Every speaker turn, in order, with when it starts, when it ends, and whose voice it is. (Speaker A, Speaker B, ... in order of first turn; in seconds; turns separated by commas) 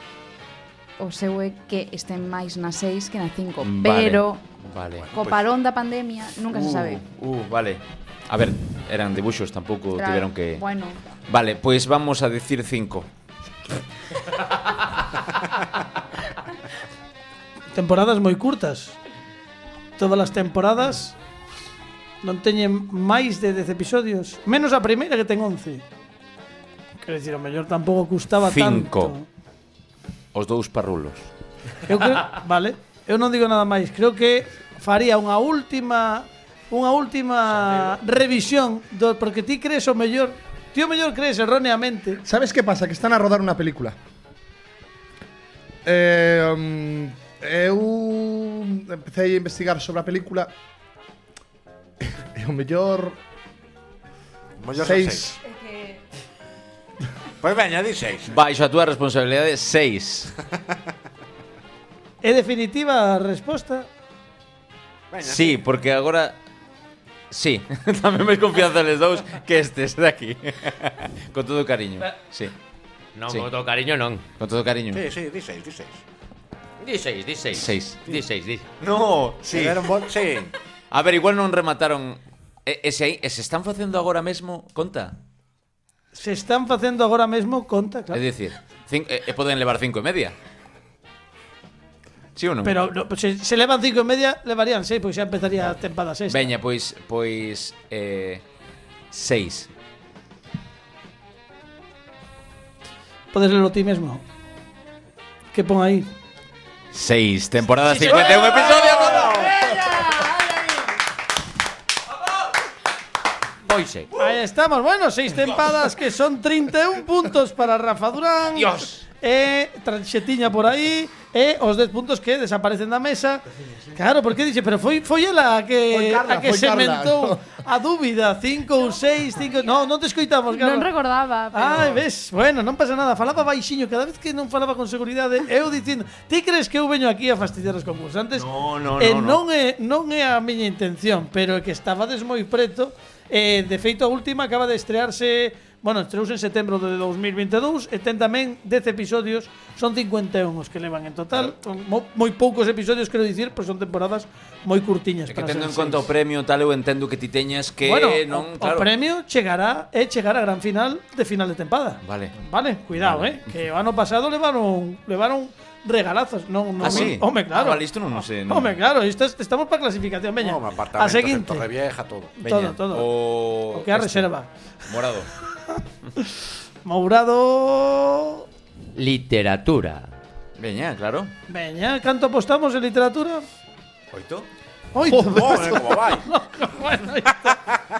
Speaker A: 1.0-4.4, Speaker B: 3.6-5.1, Speaker C: 5.0-5.4, Speaker A: 5.1-7.0, Speaker B: 6.5-10.6, Speaker A: 9.9-11.0, Speaker B: 11.3-13.1, Speaker D: 17.7-19.0, Speaker D: 20.0-21.1, Speaker D: 22.2-25.8, Speaker D: 27.0-29.2, Speaker B: 28.4-29.1, Speaker B: 30.3-31.3, Speaker D: 31.9-42.2, Speaker E: 42.2-44.0, Speaker E: 45.8-50.5, Speaker E: 52.0-53.2, Speaker C: 54.6-55.4, Speaker E: 54.8-55.4, Speaker A: 55.4-56.0, Speaker C: 57.4-58.3, Speaker B: 58.3-60.3, Speaker D: 62.2-63.9, Speaker C: 65.1-65.6, Speaker B: 65.2-66.4, Speaker B: 67.3-72.5, Speaker F: 73.2-74.2, Speaker B: 74.4-75.0, Speaker C: 74.9-76.0, Speaker F: 76.8-78.6, Speaker B: 77.5-78.0, Speaker B: 78.8-79.9, Speaker C: 79.5-80.5, Speaker B: 80.9-85.2, Speaker D: 86.1-88.2, Speaker B: 88.1-90.3, Speaker B: 92.3-92.8, Speaker D: 92.6-96.4, Speaker B: 96.3-98.4, Speaker B: 99.1-99.7, Speaker D: 103.3-104.2, Speaker D: 105.5-106.1, Speaker B: 106.9-109.6, Speaker D: 107.8-110.8, Speaker F: 113.6-114.1, Speaker D: 114.2-130.9, Speaker F: 118.6-119.0, Speaker E: 125.9-127.5, Speaker A: 129.4-129.8, Speaker A: 130.5-132.0, Speaker D: 131.5-138.5, Speaker B: 138.3-139.4, Speaker D: 139.0-156.1, Speaker B: 155.3-158.9, Speaker D: 157.8-171.7, Speaker B: 162.0-162.4, Speaker B: 162.9-163.5, Speaker B: 166.8-168.8, Speaker C: 170.4-172.3, Speaker D: 172.4-173.1, Speaker B: 172.4-174.3, Speaker D: 173.7-174.5, Speaker B: 174.8-175.3, Speaker D: 175.7-176.3, Speaker D: 176.8-178.4, Speaker F: 178.9-180.1, Speaker B: 180.6-181.3, Speaker D: 181.5-183.4, Speaker B: 184.1-184.5, Speaker D: 184.9-187.7, Speaker E: 185.1-185.8, Speaker C: 185.2-186.2